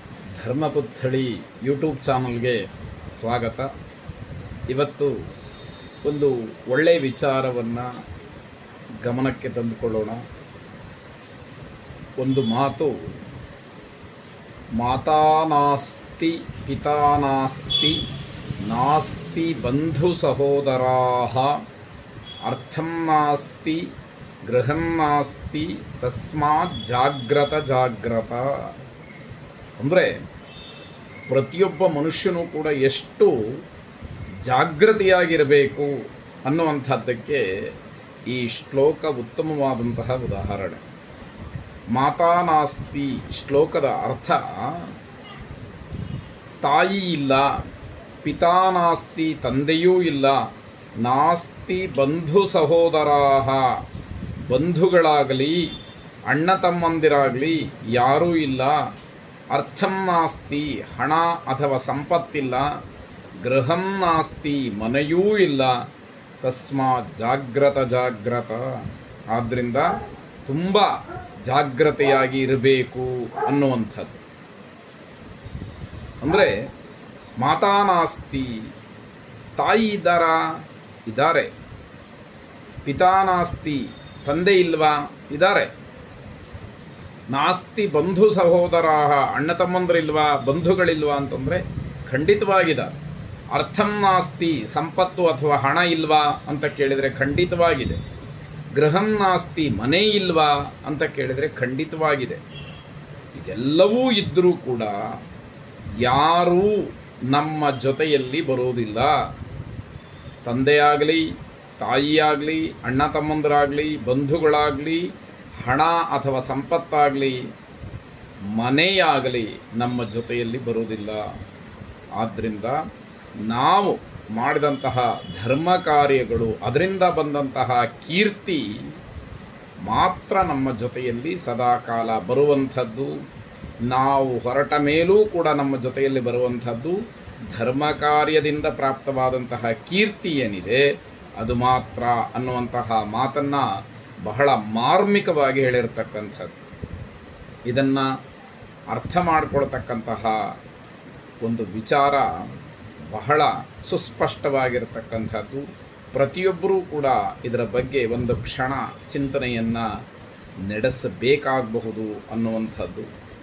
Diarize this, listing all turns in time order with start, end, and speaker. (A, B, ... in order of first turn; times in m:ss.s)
0:00.4-0:02.6 A
0:03.1-0:03.7 A
0:04.7-0:05.1 A
0:06.0-0:07.9 A
0:09.0-0:10.2 A
0:12.2-0:13.0 A
0:14.8-0:18.0 A
0:18.7-0:21.6 A
0:22.4-0:23.8 A
0:24.5-0:28.5 A
0:29.8-0:30.1 A
0:31.3-0:33.4 A
0:34.4-0:35.9 A
0:36.4-0:37.4 A
0:38.3-0:40.8 A
0:41.9-0:44.9 A
0:46.6-0:47.4 A
0:48.2-0:50.4 A
0:51.0-0:53.7 A
0:54.5-0:55.6 A
0:56.3-0:58.8 A
0:59.5-1:02.7 A
1:03.4-1:05.8 A
1:06.4-1:08.6 A
1:09.3-1:09.9 A
1:10.5-1:10.9 A
1:11.5-1:14.2 A
1:16.2-1:16.5 A
1:17.4-1:18.6 A
1:19.6-1:20.4 A
1:21.1-1:21.5 A
1:22.8-1:25.7 A
1:27.3-1:32.9 A
1:33.5-1:38.0 A
1:38.8-1:42.4 A
1:43.4-1:45.0 A
1:46.0-1:49.1 A
1:50.4-1:51.2 A
1:51.8-1:55.0 A
1:55.6-1:57.4 A
1:58.6-2:01.2 A
2:02.2-2:02.8 A
2:03.5-2:08.7 A
2:09.8-2:13.1 A
2:13.9-2:17.0 A
2:17.5-2:20.8 A
2:21.4-2:23.6 A
2:24.2-2:26.5 A
2:27.7-2:28.1 A
2:28.9-2:30.4 A
2:31.4-2:32.3 A
2:33.1-2:39.9 A
2:40.7-2:43.1 A